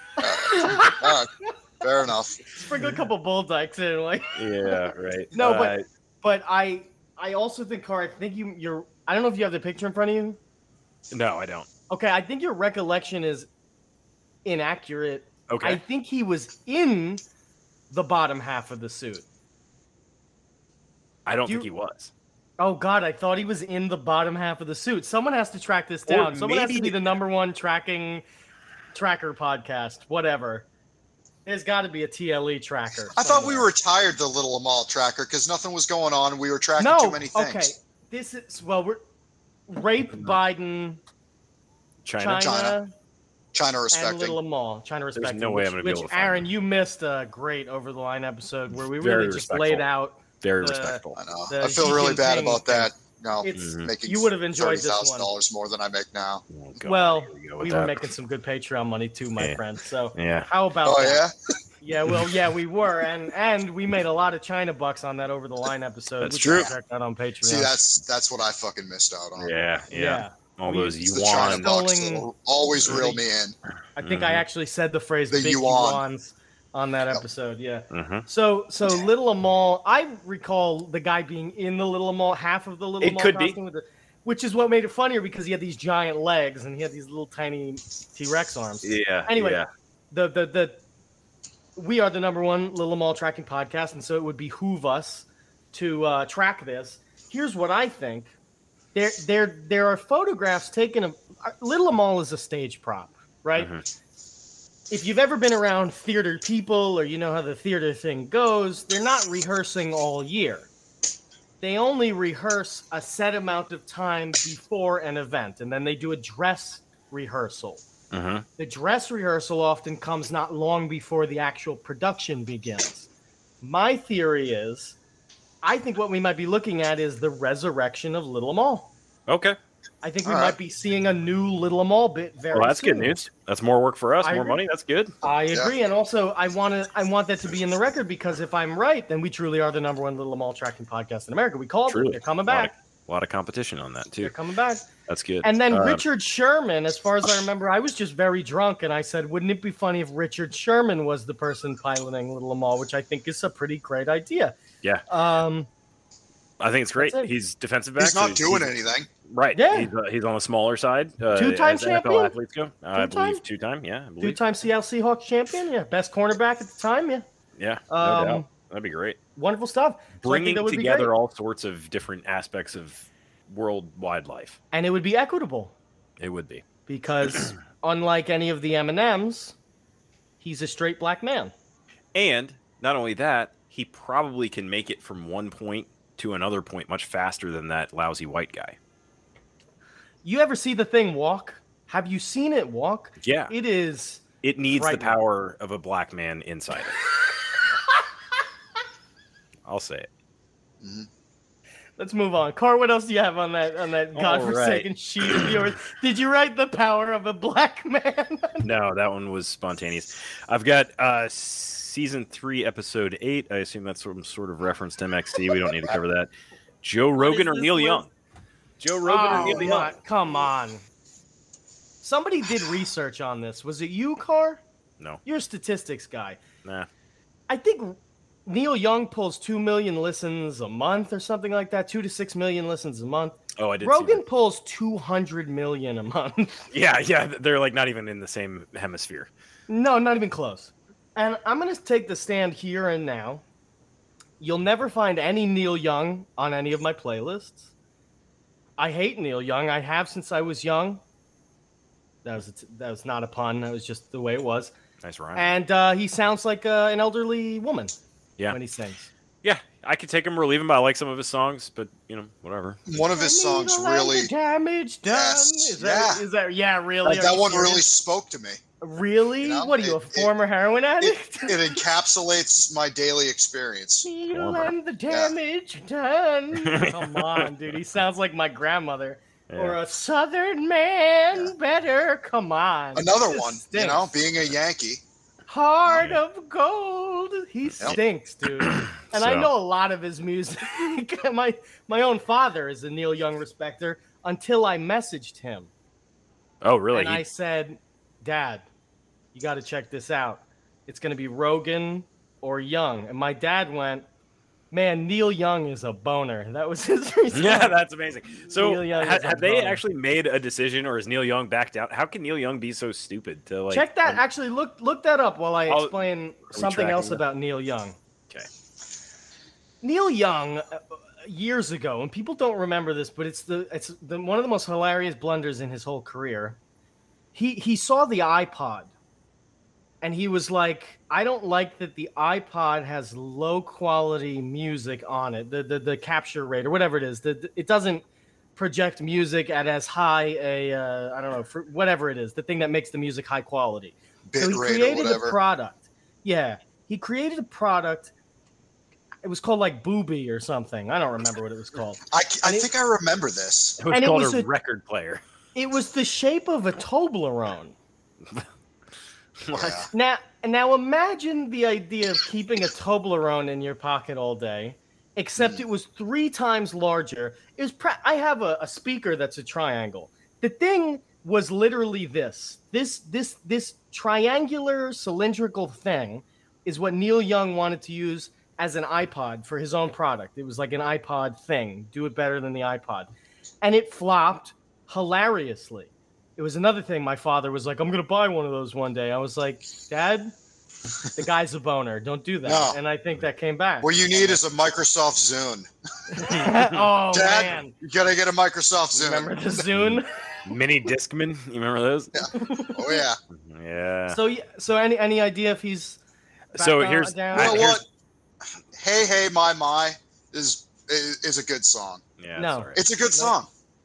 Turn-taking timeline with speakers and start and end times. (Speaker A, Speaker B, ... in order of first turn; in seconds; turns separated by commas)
Speaker A: 0.2-2.4, Speaker B: 0.3-1.1, Speaker B: 2.5-10.4, Speaker C: 4.3-5.8, Speaker C: 11.1-11.7, Speaker B: 11.9-13.5, Speaker B: 14.4-17.2, Speaker C: 15.5-15.8, Speaker B: 17.9-19.2, Speaker C: 21.2-22.1, Speaker B: 22.6-28.2, Speaker C: 26.1-27.0, Speaker B: 28.9-30.7, Speaker B: 31.4-33.7, Speaker A: 33.1-37.7, Speaker B: 36.8-39.0, Speaker B: 39.7-41.0, Speaker C: 42.0-42.5, Speaker B: 42.2-42.9, Speaker A: 42.4-42.8, Speaker A: 43.5-44.4, Speaker B: 43.9-52.9, Speaker C: 45.1-46.5, Speaker C: 49.0-49.9, Speaker C: 50.4-51.2, Speaker A: 51.2-56.4, Speaker B: 53.4-55.3, Speaker C: 53.6-53.9, Speaker C: 56.5-58.1, Speaker B: 56.8-61.2, Speaker C: 60.1-60.5, Speaker A: 60.8-61.5, Speaker B: 61.8-67.8, Speaker C: 66.2-66.7, Speaker A: 67.4-69.5, Speaker C: 69.4-71.7, Speaker B: 69.9-72.3, Speaker A: 71.0-73.5, Speaker B: 72.8-73.2, Speaker B: 74.0-90.8, Speaker C: 74.0-74.4, Speaker A: 75.3-76.0, Speaker C: 77.9-78.2, Speaker C: 83.0-83.6, Speaker C: 88.8-89.7, Speaker B: 91.8-98.3, Speaker B: 98.9-103.7, Speaker C: 103.5-103.8, Speaker B: 104.9-110.7, Speaker B: 111.6-117.8, Speaker C: 118.1-118.5, Speaker B: 118.6-123.1, Speaker B: 123.6-125.0, Speaker B: 125.6-128.9, Speaker C: 129.3-129.6, Speaker B: 130.0-133.2, Speaker A: 130.2-130.6, Speaker C: 132.5-135.1, Speaker B: 134.2-134.6, Speaker B: 135.2-142.7, Speaker C: 141.9-144.3, Speaker B: 144.2-144.9, Speaker C: 145.1-146.0, Speaker B: 145.4-154.5, Speaker B: 155.1-155.7, Speaker C: 156.6-158.7, Speaker B: 157.0-157.3, Speaker A: 158.0-159.1, Speaker C: 159.3-164.4, Speaker B: 159.5-159.9, Speaker B: 161.3-162.3, Speaker B: 162.9-163.4, Speaker B: 164.2-167.2, Speaker C: 167.6-169.2, Speaker B: 167.9-168.5, Speaker B: 169.3-171.1, Speaker C: 170.2-174.6, Speaker B: 174.7-175.7, Speaker C: 176.2-176.6, Speaker B: 176.9-179.5, Speaker B: 180.4-181.5, Speaker C: 182.1-188.8, Speaker B: 190.2-195.2, Speaker C: 193.2-193.5, Speaker C: 194.4-197.0, Speaker C: 199.7-200.1, Speaker A: 200.8-201.1, Speaker B: 202.0-208.7, Speaker C: 204.1-205.6, Speaker C: 208.6-216.3, Speaker C: 216.8-218.1, Speaker B: 217.2-218.0, Speaker C: 218.8-219.9, Speaker B: 219.0-220.8, Speaker B: 222.0-224.6, Speaker B: 225.2-226.4, Speaker B: 227.5-236.7, Speaker C: 233.6-234.2, Speaker C: 236.7-239.3, Speaker B: 239.7-243.4, Speaker B: 244.4-247.7, Speaker B: 248.8-251.0, Speaker B: 252.2-254.7, Speaker C: 255.0-255.5, Speaker B: 255.3-257.9, Speaker B: 258.5-259.1, Speaker C: 259.4-262.8, Speaker A: 262.9-264.3, Speaker B: 263.1-267.9, Speaker A: 265.0-266.2, Speaker A: 267.0-268.6, Speaker B: 268.8-271.8, Speaker A: 269.4-270.3, Speaker A: 271.0-274.1, Speaker B: 274.0-284.1, Speaker C: 274.3-274.7, Speaker C: 276.6-277.5, Speaker C: 279.5-279.8, Speaker A: 282.9-285.0, Speaker B: 285.5-295.7, Speaker C: 285.9-286.2, Speaker C: 288.6-289.5, Speaker C: 296.6-297.2, Speaker B: 296.9-298.6, Speaker B: 299.3-304.1, Speaker B: 304.7-307.7, Speaker C: 307.3-314.2, Speaker B: 308.5-309.8, Speaker B: 313.7-317.9, Speaker C: 315.7-316.0, Speaker C: 316.5-317.2, Speaker B: 319.8-326.6, Speaker B: 327.3-328.9, Speaker B: 330.0-338.0, Speaker B: 338.6-348.1, Speaker A: 344.3-345.4, Speaker B: 349.2-352.7, Speaker A: 352.1-353.8, Speaker C: 353.8-355.2, Speaker B: 353.9-354.5, Speaker B: 355.5-357.7, Speaker C: 359.4-359.7, Speaker A: 359.5-359.9, Speaker B: 359.9-383.1, Speaker A: 365.4-365.6, Speaker B: 383.6-390.3, Speaker B: 391.1-394.4, Speaker A: 392.4-392.8, Speaker A: 393.8-395.7, Speaker B: 396.1-397.7, Speaker A: 397.1-399.6, Speaker B: 398.9-400.1, Speaker C: 399.8-402.2, Speaker A: 402.1-403.2, Speaker B: 402.3-403.0, Speaker C: 403.3-404.2, Speaker B: 404.1-406.0, Speaker B: 406.5-407.7, Speaker C: 406.5-407.8, Speaker A: 407.3-407.8, Speaker A: 408.7-412.0, Speaker C: 412.2-412.8, Speaker B: 412.4-413.3, Speaker A: 412.7-413.5